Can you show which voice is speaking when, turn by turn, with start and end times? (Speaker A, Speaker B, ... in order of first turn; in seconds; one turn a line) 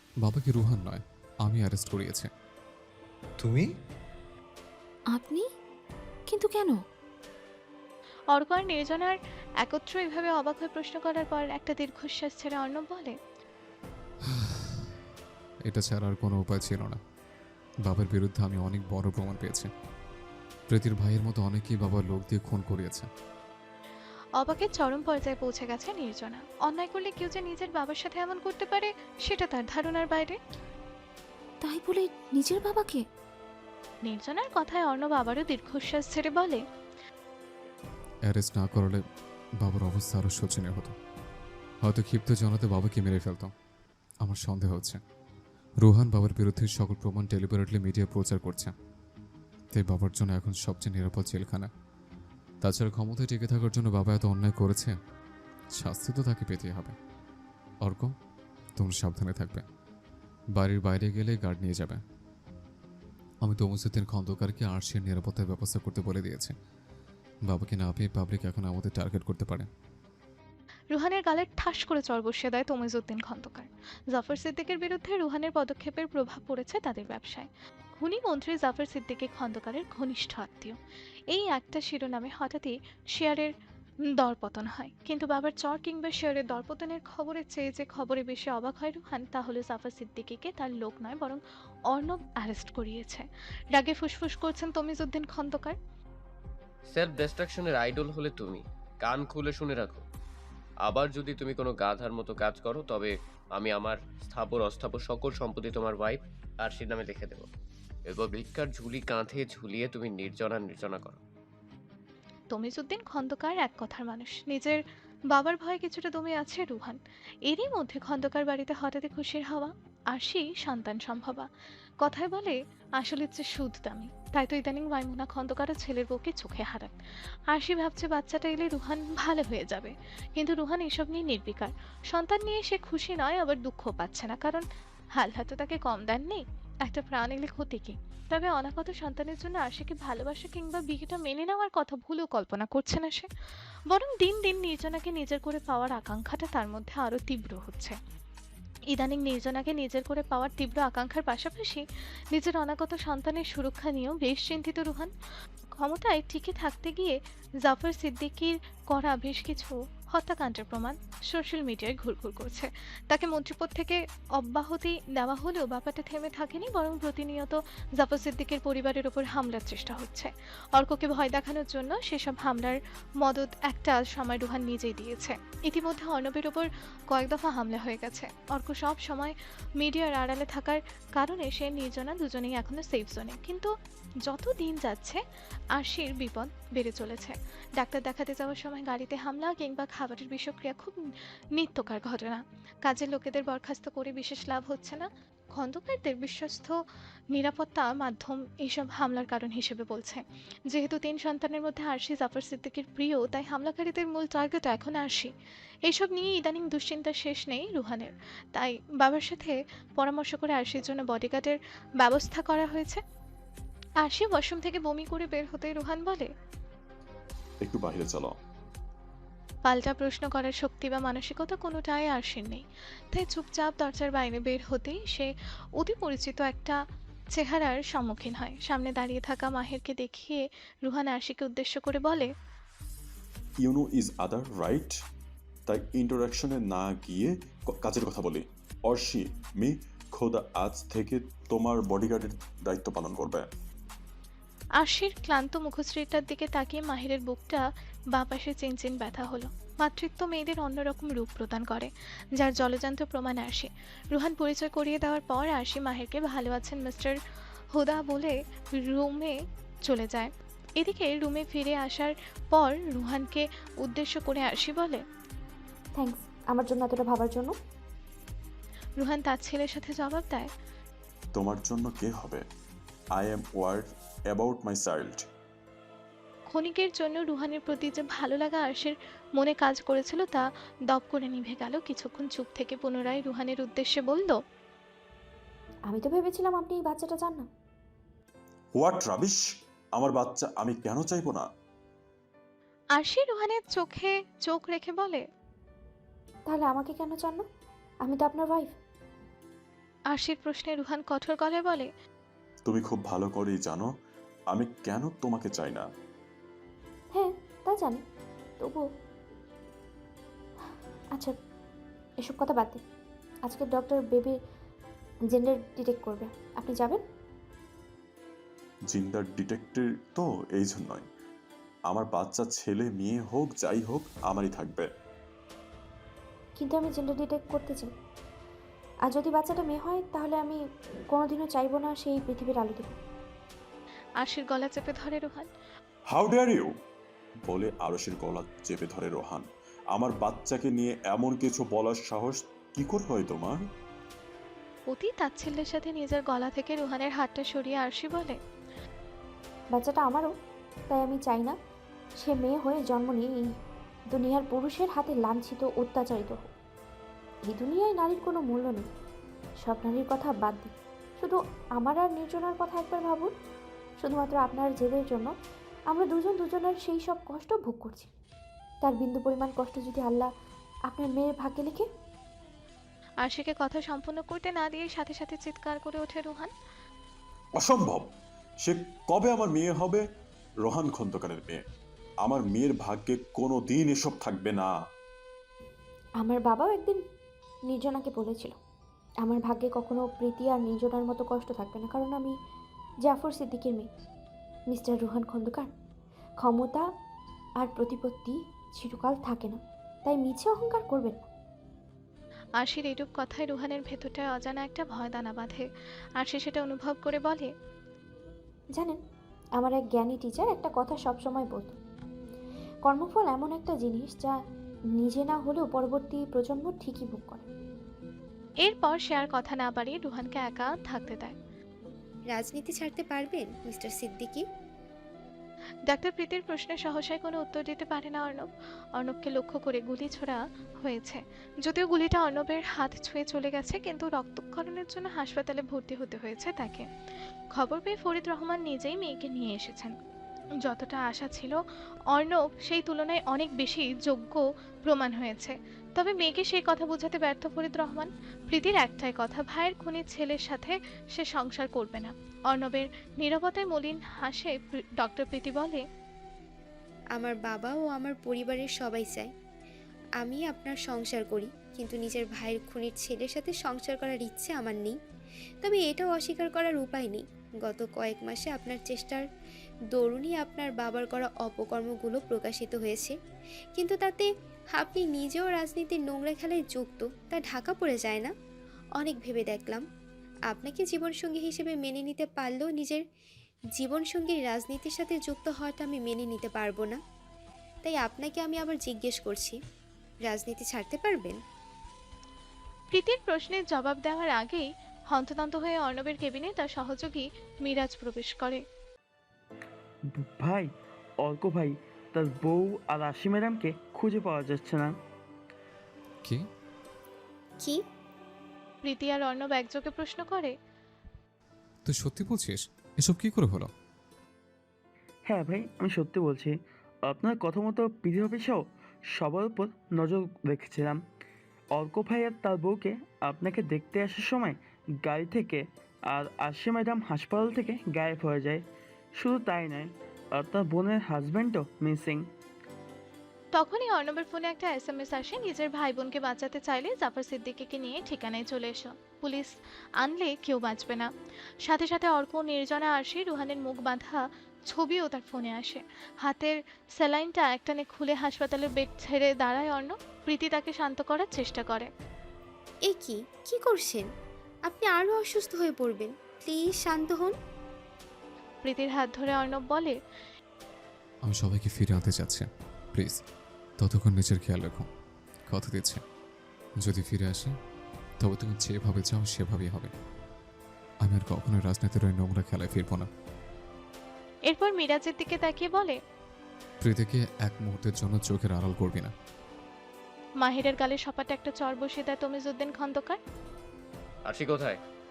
Speaker A: 0.2-2.3
Speaker B: 5.1-5.4
Speaker B: 6.3-6.8
Speaker C: 8.3-13.1
Speaker A: 14.3-14.9
Speaker A: 15.7-17.0
Speaker A: 17.9-19.7
Speaker A: 20.7-23.1
Speaker C: 24.4-30.4
Speaker B: 31.6-33.0
Speaker C: 34.1-36.6
Speaker A: 38.3-39.0
Speaker A: 39.6-41.0
Speaker A: 41.8-43.5
Speaker A: 44.2-45.0
Speaker A: 45.8-48.7
Speaker A: 49.7-51.7
Speaker A: 52.6-55.0
Speaker A: 55.7-57.0
Speaker A: 57.8-58.1
Speaker A: 58.8-59.7
Speaker A: 60.5-62.0
Speaker A: 63.4-66.6
Speaker A: 67.5-69.7
Speaker C: 70.9-80.8
Speaker C: 81.3-83.5
Speaker C: 84.2-95.8
Speaker D: 96.9-100.0
Speaker D: 100.8-107.5
Speaker D: 108.1-111.2
Speaker C: 112.5-114.8
Speaker C: 115.3-121.5
Speaker C: 122.0-127.0
Speaker C: 127.5-134.7
Speaker C: 135.2-143.3
Speaker C: 143.9-148.0
Speaker C: 148.9-151.8
Speaker C: 152.3-155.1
Speaker C: 155.8-183.7
Speaker C: 184.3-185.2
Speaker C: 185.8-191.0
Speaker C: 191.6-196.8
Speaker C: 197.3-205.3
Speaker C: 205.9-213.0
Speaker C: 214.0-216.3
Speaker E: 217.6-218.3
Speaker C: 219.7-226.8
Speaker C: 227.3-232.3
Speaker E: 233.6-234.9
Speaker E: 235.7-243.5
Speaker C: 244.8-247.6
Speaker C: 248.1-257.2
Speaker C: 257.8-259.4
Speaker C: 259.9-265.0
Speaker F: 266.0-267.5
Speaker C: 269.0-270.5
Speaker E: 271.4-272.4
Speaker E: 273.2-275.2
Speaker C: 276.5-284.4
Speaker F: 285.9-287.5
Speaker E: 288.7-289.4
Speaker E: 290.0-291.4
Speaker C: 293.0-295.2
Speaker F: 296.5-297.4
Speaker F: 298.0-298.7
Speaker C: 300.1-301.9
Speaker E: 302.7-303.9
Speaker E: 304.5-305.8
Speaker F: 307.1-308.0
Speaker F: 312.2-312.8
Speaker F: 313.5-314.4
Speaker F: 315.3-317.0
Speaker E: 318.9-321.1
Speaker E: 321.9-324.9
Speaker F: 326.6-327.9
Speaker F: 329.1-330.6
Speaker F: 331.1-333.0
Speaker C: 334.2-335.5
Speaker E: 336.1-336.7
Speaker E: 337.5-343.6
Speaker C: 344.9-348.4
Speaker F: 349.7-350.3
Speaker F: 350.9-351.6
Speaker F: 352.2-353.4
Speaker F: 354.1-356.5
Speaker F: 357.5-358.9
Speaker F: 359.6-363.3
Speaker F: 364.0-365.3
Speaker F: 365.9-368.1
Speaker F: 368.8-370.3
Speaker F: 370.9-371.9
Speaker C: 373.2-376.5
Speaker E: 377.6-378.1
Speaker E: 378.6-380.0
Speaker E: 380.7-381.6
Speaker E: 382.3-384.7
Speaker F: 386.2-387.0
Speaker F: 387.7-388.6
Speaker F: 389.2-392.3
Speaker F: 393.1-393.9
Speaker F: 394.7-395.7
Speaker F: 396.4-396.9
Speaker F: 397.6-401.3
Speaker C: 402.6-405.7
Speaker C: 406.2-407.5
Speaker F: 409.6-411.8
Speaker F: 412.9-414.3
Speaker F: 415.0-417.4
Speaker C: 418.7-421.3
Speaker G: 422.3-424.4
Speaker C: 425.9-436.9
Speaker C: 437.6-439.9
Speaker C: 440.6-441.6
Speaker C: 442.1-455.8
Speaker G: 457.2-459.3
Speaker G: 460.2-465.0
Speaker G: 465.6-469.2
Speaker G: 469.9-473.1
Speaker G: 473.8-478.3
Speaker G: 479.0-479.8
Speaker G: 480.5-483.0
Speaker G: 483.8-487.0
Speaker G: 487.8-489.6
Speaker G: 490.2-491.4
Speaker C: 492.9-498.6
Speaker H: 500.4-500.7
Speaker H: 501.2-504.9
Speaker C: 508.9-510.5
Speaker A: 511.9-513.7
Speaker H: 515.3-516.5
Speaker H: 517.1-518.6
Speaker H: 519.2-521.0
Speaker H: 521.8-525.6
Speaker H: 526.1-528.6
Speaker H: 529.2-532.2
Speaker C: 533.5-541.1
Speaker C: 541.6-551.9
Speaker G: 552.9-554.1
Speaker G: 554.7-557.3
Speaker C: 558.6-560.0
Speaker A: 561.2-563.2
Speaker A: 563.8-564.9
Speaker A: 565.5-566.0
Speaker A: 566.8-567.5
Speaker A: 568.2-569.9
Speaker A: 571.0-573.1
Speaker C: 574.5-576.0
Speaker A: 576.8-579.1
Speaker C: 580.4-583.2
Speaker D: 584.3-584.8